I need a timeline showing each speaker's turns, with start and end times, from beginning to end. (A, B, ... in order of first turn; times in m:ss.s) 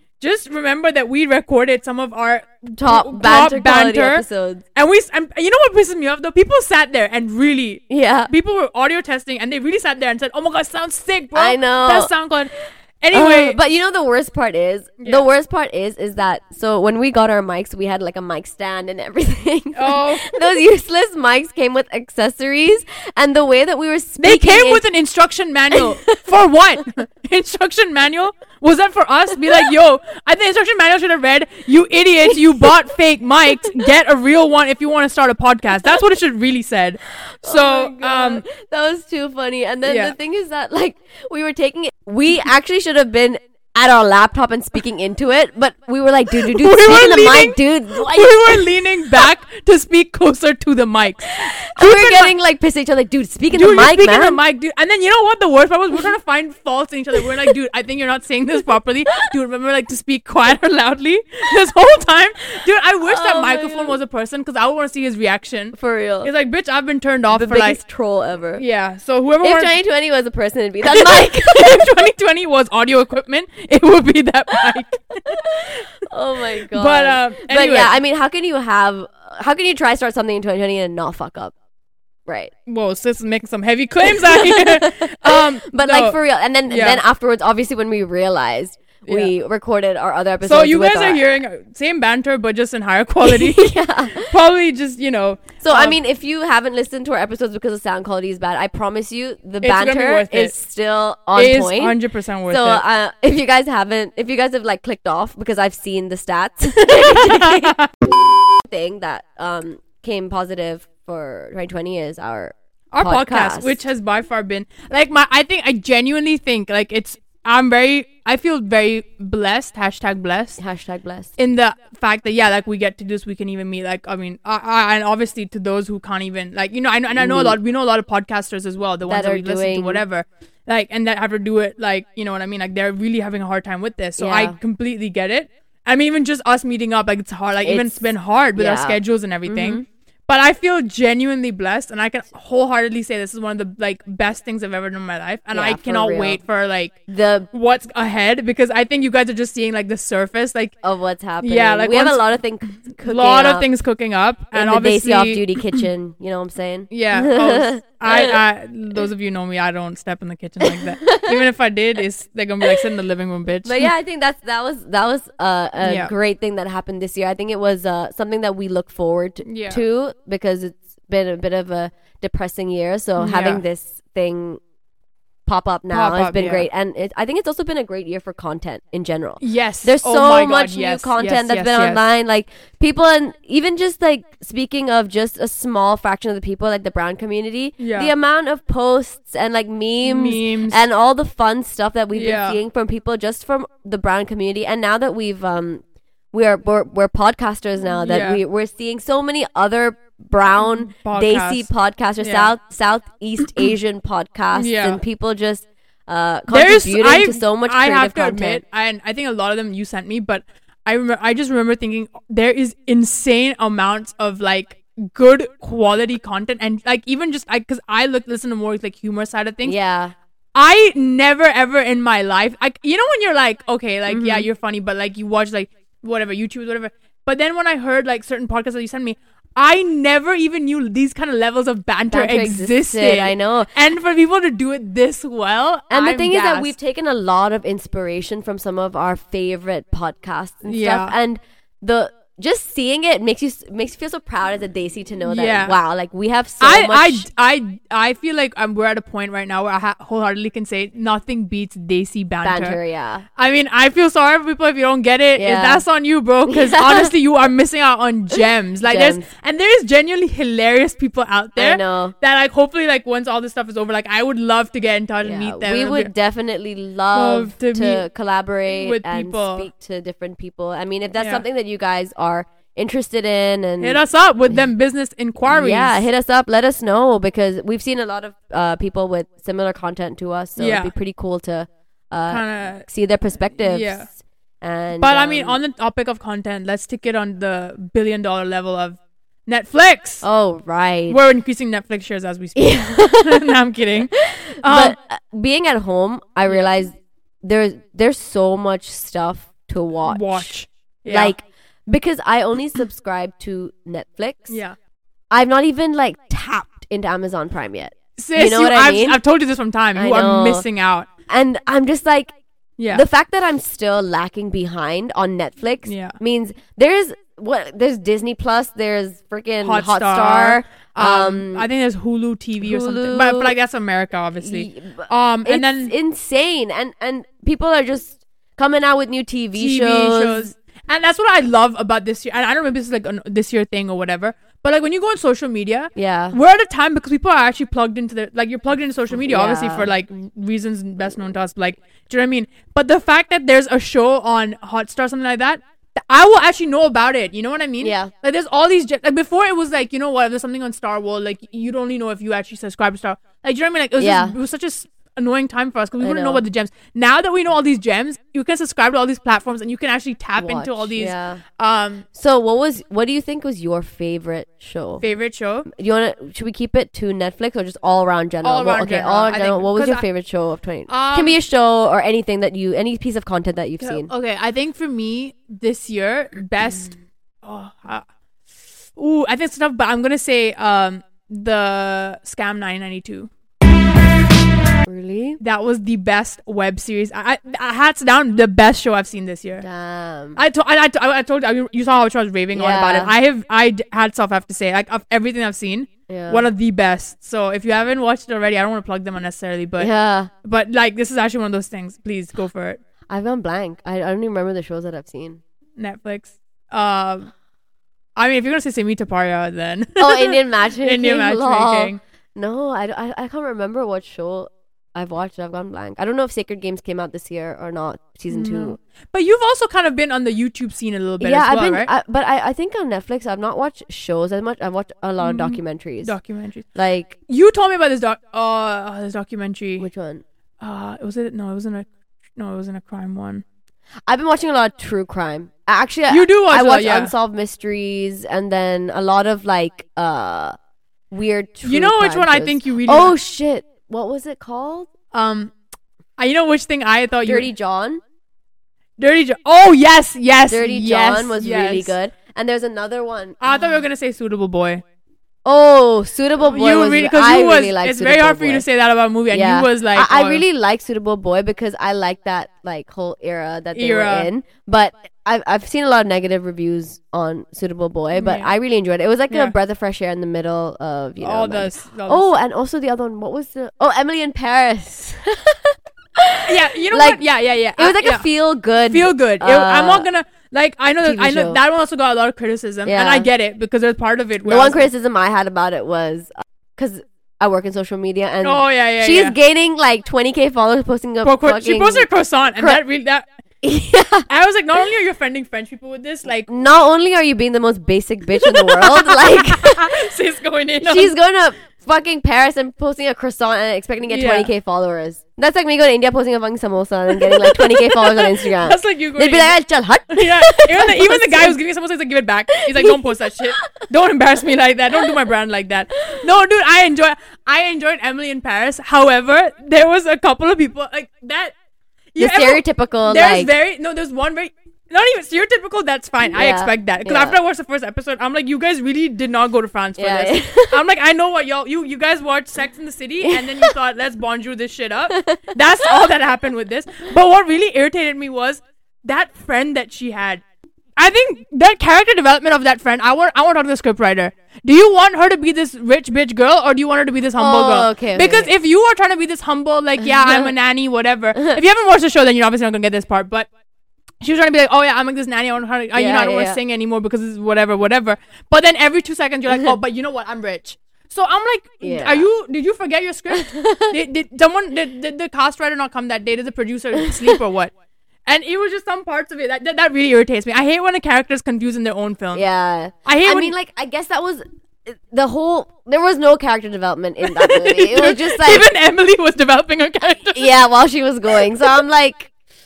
0:00.2-0:13.6 A
0:02.8-0:04.6 B
0:07.9-0:08.3 B
0:11.4-0:12.1 B
0:13.1-0:24.8 B
0:19.8-0:20.3 A
0:24.2-0:38.4 A
0:25.8-0:26.2 B
0:37.2-0:48.7 B
0:39.9-0:40.1 A
0:46.3-0:52.3 A
0:51.3-0:54.4 B
0:53.5-1:07.8 A
1:03.0-1:04.0 B
1:05.7-1:06.3 B
1:07.3-1:08.6 B
1:08.6-1:09.7 A
1:09.4-1:11.9 B
1:10.8-1:15.4 A
1:15.3-1:21.5 B
1:16.7-1:17.9 A
1:22.3-1:22.5 B
1:22.7-1:26.2 A
1:24.1-1:31.2 B
1:26.7-1:27.0 A
1:29.0-1:29.3 A
1:30.4-1:36.0 A
1:33.2-1:34.3 B
1:35.6-1:42.0 B
1:39.6-1:40.5 A
1:41.4-1:42.8 A
1:42.5-1:47.8 B
1:46.9-1:47.9 A
1:48.6-1:53.8 B
1:52.9-2:00.6 A
2:00.6-2:01.3 B
2:01.4-2:27.0 A
2:07.2-2:07.6 B
2:09.1-2:10.0 B
2:14.2-2:14.6 B
2:17.6-2:18.0 B
2:18.6-2:19.8 B
2:25.5-2:26.4 B
2:27.1-2:27.5 B
2:27.5-2:30.8 A
2:30.8-2:33.7 B
2:31.4-2:32.2 A
2:33.0-2:35.8 A
2:34.5-2:38.4 B
2:36.9-2:43.9 A
2:40.6-2:41.4 B
2:43.6-2:54.6 B
2:45.8-2:46.1 A
2:49.4-2:49.8 A
2:53.2-2:53.6 A
2:55.5-3:28.6 B
2:55.9-2:56.7 A
2:59.4-3:02.0 A
3:07.8-3:08.1 A
3:10.0-3:10.8 A
3:12.1-3:12.6 A
3:18.0-3:18.4 A
3:20.6-3:21.7 A
3:22.2-3:22.5 A
3:24.5-3:25.0 A
3:26.5-3:39.8 A
3:39.6-3:40.1 B
3:40.6-3:56.7 A
3:44.1-3:44.5 B
3:52.1-3:53.7 B
3:55.9-4:07.3 B
4:00.7-4:01.2 A
4:05.3-4:05.8 A
4:06.6-4:12.8 A
4:12.4-4:13.2 B
4:13.4-4:26.1 A
4:15.4-4:15.8 B
4:16.5-4:17.1 B
4:18.8-4:19.3 B
4:21.6-4:22.1 B
4:25.2-4:34.6 B
4:27.1-4:28.1 A
4:28.7-4:29.7 A
4:31.2-4:31.4 A
4:33.8-4:36.0 A
4:35.5-4:45.6 B
4:40.6-4:40.9 A
4:42.3-4:42.8 A
4:43.6-4:44.1 A
4:45.0-4:50.2 A
4:50.2-4:51.2 B
4:51.1-4:55.0 A
4:52.6-4:53.5 B
4:54.1-5:00.5 B
4:56.5-4:56.7 A
5:00.1-5:01.3 A
5:01.1-5:04.6 B
5:04.5-5:04.8 A
5:05.3-5:09.2 B
5:08.2-5:11.1 A
5:10.0-5:10.6 B
5:11.3-5:12.4 B
5:12.8-5:13.0 A
5:12.9-5:21.7 B
5:15.8-5:16.2 A
5:19.6-5:25.9 A
5:22.6-5:23.5 B
5:24.4-5:30.5 B
5:29.6-6:02.0 A
5:36.0-5:36.4 B
5:39.2-5:39.9 B
5:47.8-5:48.1 B
5:54.0-5:54.4 B
5:56.0-5:56.4 B
6:00.4-6:01.4 B
6:02.1-6:05.0 B
6:05.0-6:05.7 A
6:05.7-6:14.1 B
6:08.4-6:10.0 A
6:10.9-6:11.4 A
6:13.8-6:18.0 A
6:19.0-6:23.3 A
6:24.9-6:25.4 B
6:25.4-6:29.6 A
6:29.6-6:30.4 B
6:30.4-6:39.9 A
6:32.5-6:33.1 B
6:36.1-6:36.5 B
6:39.8-6:40.3 B
6:40.4-6:42.8 A
6:43.1-6:45.4 B
6:45.8-6:47.3 A
6:48.2-6:52.0 A
6:50.0-6:58.8 B
6:58.3-7:01.9 A
7:01.2-7:06.2 B
7:05.2-7:06.7 A
7:06.7-7:07.2 B
7:07.3-7:09.9 A
7:09.8-7:10.2 B
7:10.6-7:13.4 A
7:14.1-7:20.6 B
7:16.1-7:17.1 A
7:21.1-7:24.9 B
7:21.6-7:23.2 A
7:25.1-7:25.5 A
7:26.2-7:27.5 A
7:27.2-7:28.0 B
7:29.0-7:32.0 A
7:30.5-7:33.6 B
7:33.4-7:34.8 A
7:35.4-7:38.6 B
7:36.4-7:40.4 A
7:39.3-7:57.2 B
7:43.8-7:44.3 A
7:48.1-7:48.5 A
7:49.3-7:49.6 A
7:51.2-7:52.3 A
7:56.5-7:58.3 A
7:57.8-8:00.1 B
7:58.9-8:04.9 A
8:01.0-8:01.6 B
8:02.9-8:03.3 B
8:04.4-8:12.8 B
8:08.4-8:09.4 A
8:11.2-8:13.2 A
8:13.6-8:14.3 B
8:14.3-8:16.5 A
8:16.5-8:20.0 B
8:18.4-8:21.1 A
8:20.8-8:31.6 B
8:24.1-8:24.5 A
8:27.1-8:29.5 A
8:30.1-8:41.5 A
8:32.5-8:33.9 B
8:42.1-9:00.4 A
8:42.2-8:43.5 B
8:46.3-8:47.4 B
8:50.0-8:50.8 B
8:53.2-8:53.7 B
8:55.1-8:55.6 B
9:01.0-9:13.5 A
9:07.4-9:08.5 B
9:10.0-9:10.5 B
9:14.2-9:27.7 A
9:16.0-9:16.6 B
9:21.8-9:22.3 B
9:23.3-9:24.0 B
9:28.3-9:32.4 A
9:32.3-9:38.7 B
9:33.0-9:33.5 A
9:37.2-9:40.5 A
9:40.4-9:42.3 B
9:41.4-9:41.7 A